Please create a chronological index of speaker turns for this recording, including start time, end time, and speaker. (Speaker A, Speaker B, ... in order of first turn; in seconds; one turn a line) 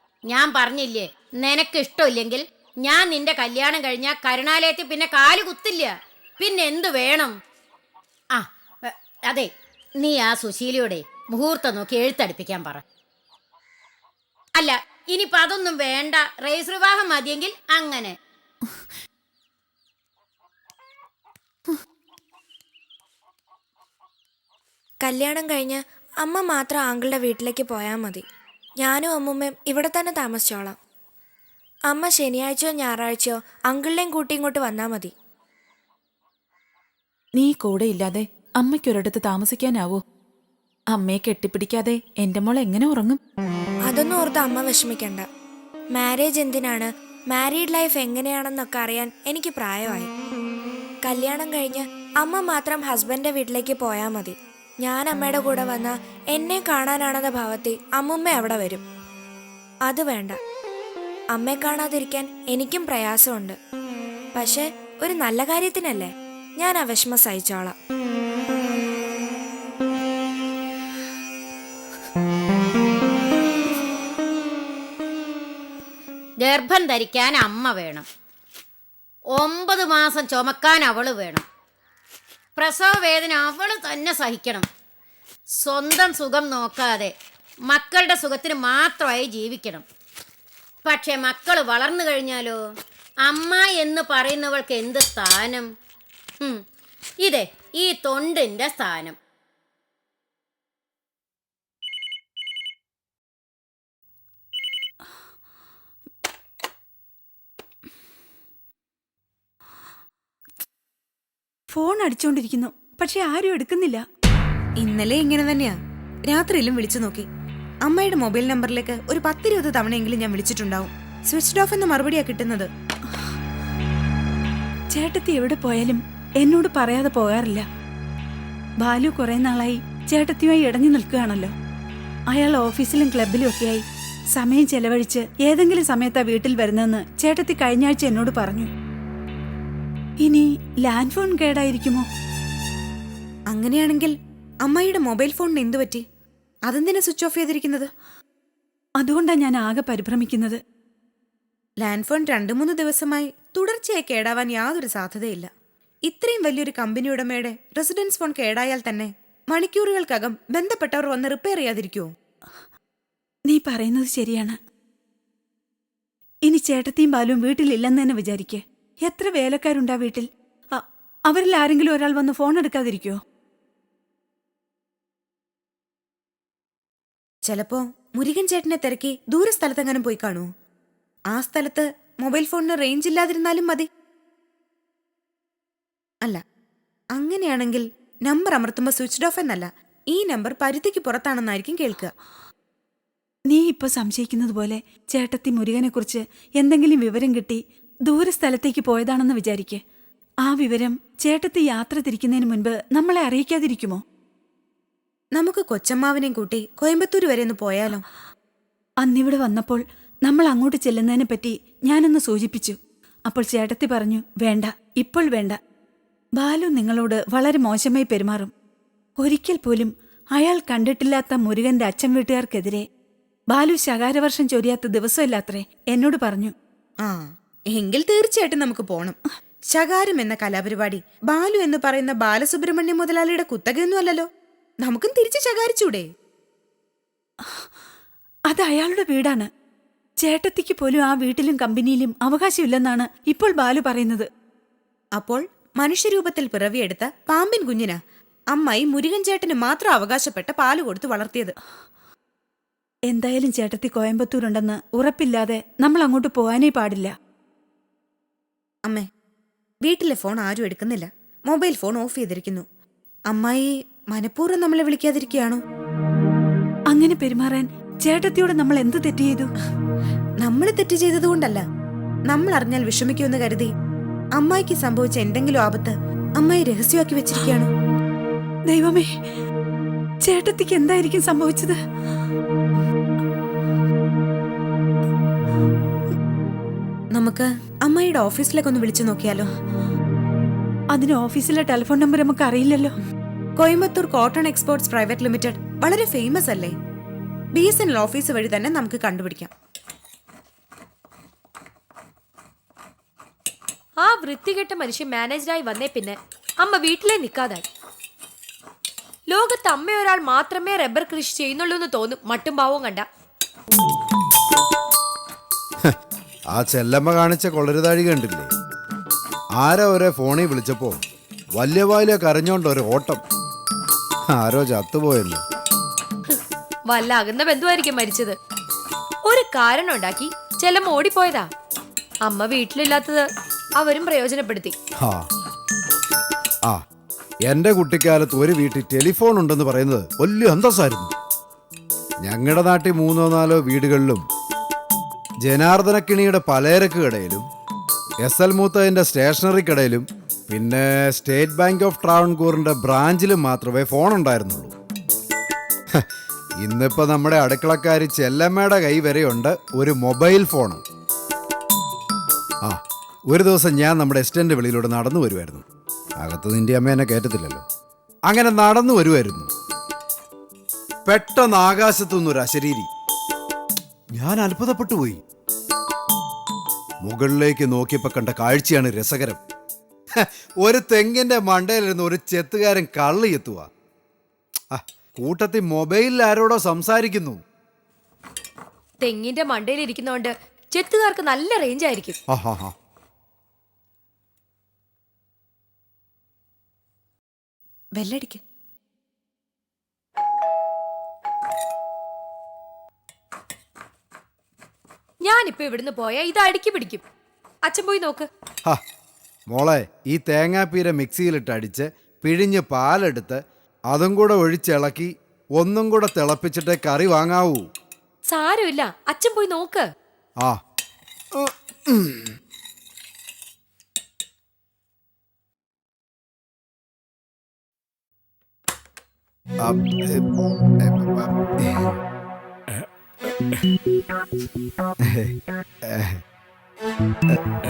Speaker A: 0.2-7.3
Speaker A: 8.3-12.8
Speaker A: 14.6-18.1
Speaker B: 25.0-28.2
Speaker B: 28.8-30.8
Speaker B: 31.9-35.1
Speaker C: 37.3-40.0
Speaker C: 40.9-43.2
Speaker B: 43.9-45.3
Speaker B: 45.9-50.1
Speaker B: 51.0-58.8
Speaker B: 59.9-60.4
Speaker B: 61.3-63.6
Speaker B: 64.3-67.7
Speaker A: 76.4-78.0
Speaker A: 79.3-81.4
Speaker A: 82.6-84.7
Speaker A: 85.6-87.1
Speaker A: 87.7-89.8
Speaker A: 90.8-92.6
Speaker A: 93.2-95.7
Speaker A: 97.2-99.2
Speaker D: 111.7-114.0
Speaker E: 114.8-115.8
Speaker E: 116.3-117.2
Speaker E: 117.8-122.7
Speaker D: 124.9-127.6
Speaker D: 128.8-131.5
Speaker D: 132.3-133.8
Speaker D: 134.3-138.7
Speaker D: 140.2-142.0
Speaker E: 143.5-146.0
Speaker E: 146.7-147.9
Speaker D: 149.0-150.6
Speaker E: 151.8-155.5
Speaker E: 156.1-162.1
Speaker D: 163.5-164.6
Speaker D: 166.5-173.2
Speaker E: 177.4-180.4
Speaker E: 181.3-183.9
Speaker E: 187.1-192.1
Speaker D: 193.5-199.8
Speaker D: 200.4-204.0
Speaker E: 205.3-208.0
Speaker D: 209.0-215.6
Speaker D: 216.4-218.5
Speaker D: 219.2-222.8
Speaker D: 223.5-226.5
Speaker E: 227.7-229.2
Speaker E: 229.7-234.3
Speaker E: 234.8-236.1
Speaker D: 238.5-239.5
Speaker D: 240.2-244.3
Speaker E: 245.2-248.0
Speaker E: 248.5-251.5
Speaker D: 253.1-257.1
Speaker E: 259.8-262.6
Speaker E: 263.3-265.6
Speaker D: 266.9-269.5
Speaker E: 270.4-271.6
Speaker E: 272.3-273.7
Speaker E: 274.4-277.7
Speaker D: 278.7-279.1
Speaker D: 280.2-281.8
Speaker E: 287.1-289.5
Speaker D: 290.9-292.9
Speaker E: 293.6-296.7
Speaker E: 297.5-299.5
Speaker F: 304.0-307.6
Speaker F: 309.3-313.1
Speaker G: 316.5-318.5
Speaker G: 319.6-321.0
Speaker G: 321.6-323.2
Speaker G: 324.3-325.4
Speaker F: 326.9-328.4
Speaker F: 329.3-331.5
Speaker F: 332.2-333.2
Speaker F: 333.8-334.7
Speaker G: 337.5-341.1
Speaker G: 342.2-344.2
Speaker G: 345.4-347.4
Speaker G: 348.2-354.7
Speaker G: 356.6-360.8
Speaker G: 362.6-365.6
Speaker G: 366.2-367.6
Speaker G: 368.3-369.5
Speaker G: 371.1-372.9
Speaker G: 374.2-375.2
Speaker G: 377.0-379.4
Speaker G: 380.2-383.7
Speaker G: 384.7-387.4
Speaker F: 389.0-392.1
Speaker G: 392.3-392.7
Speaker E: 397.9-398.4
Speaker F: 405.2-407.0
Speaker F: 407.7-408.3
Speaker G: 409.5-413.4
Speaker G: 413.9-417.6
Speaker F: 418.2-419.8
Speaker G: 421.3-422.3
Speaker G: 429.6-430.2
Speaker G: 430.8-431.9
Speaker G: 435.0-435.3
Speaker G: 435.9-436.2